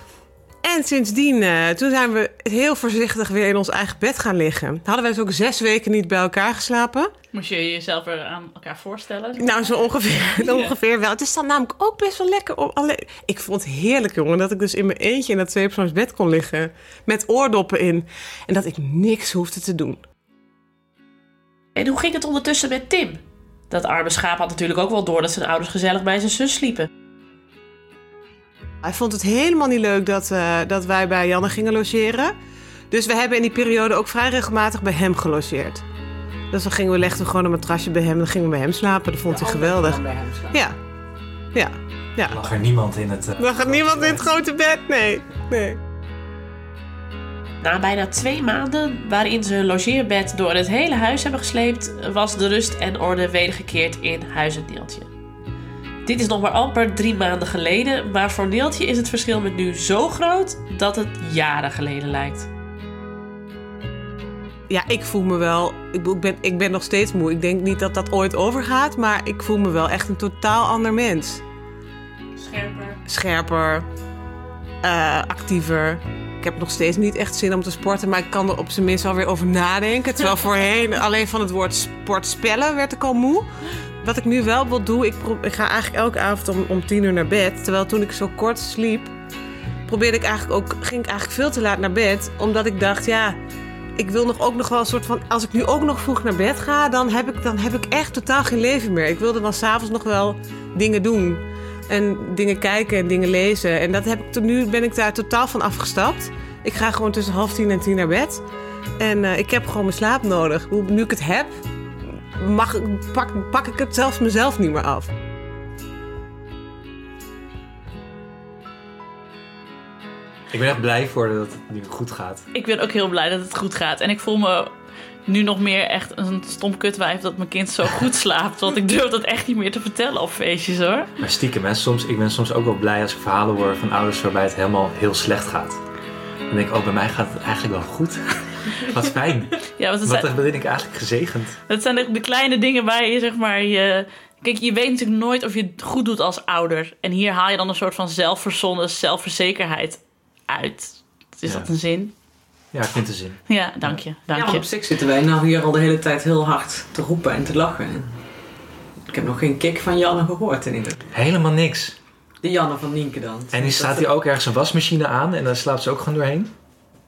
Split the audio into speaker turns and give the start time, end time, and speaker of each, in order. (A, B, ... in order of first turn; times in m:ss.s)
0:00.6-0:07.1 A
0:07.3-0:09.7 B
0:09.4-0:20.0 A
0:10.4-0:10.7 B
0:21.8-0:26.9 C
0:28.8-0:32.3 A
0:32.9-0:35.8 A
0:36.5-0:40.8 A
0:39.3-0:40.6 D
0:41.5-0:42.4 A
0:42.3-0:44.3 E
0:43.4-0:45.8 A
0:47.6-0:55.1 C
0:56.0-1:02.5 C
1:04.7-1:11.4 A
1:12.4-1:13.0 B
1:13.1-1:13.9 A
1:14.8-1:23.5 A
1:24.0-1:29.1 A
1:29.9-1:33.4 A
1:34.0-1:48.4 A
1:49.0-1:51.5 A
1:52.1-1:55.1 A
2:00.5-2:02.4 E
2:02.5-2:04.7 B
2:05.3-2:11.1 B
2:11.2-2:15.8 E
2:16.5-2:21.5 E
2:19.7-2:20.3 B
2:21.7-2:32.1 B
2:32.7-2:34.0 E
2:33.5-2:34.6 B
2:34.3-2:38.2 D
2:39.1-2:41.0 D
2:41.1-2:42.0 E
2:42.4-2:44.1 D
2:43.5-2:46.5 E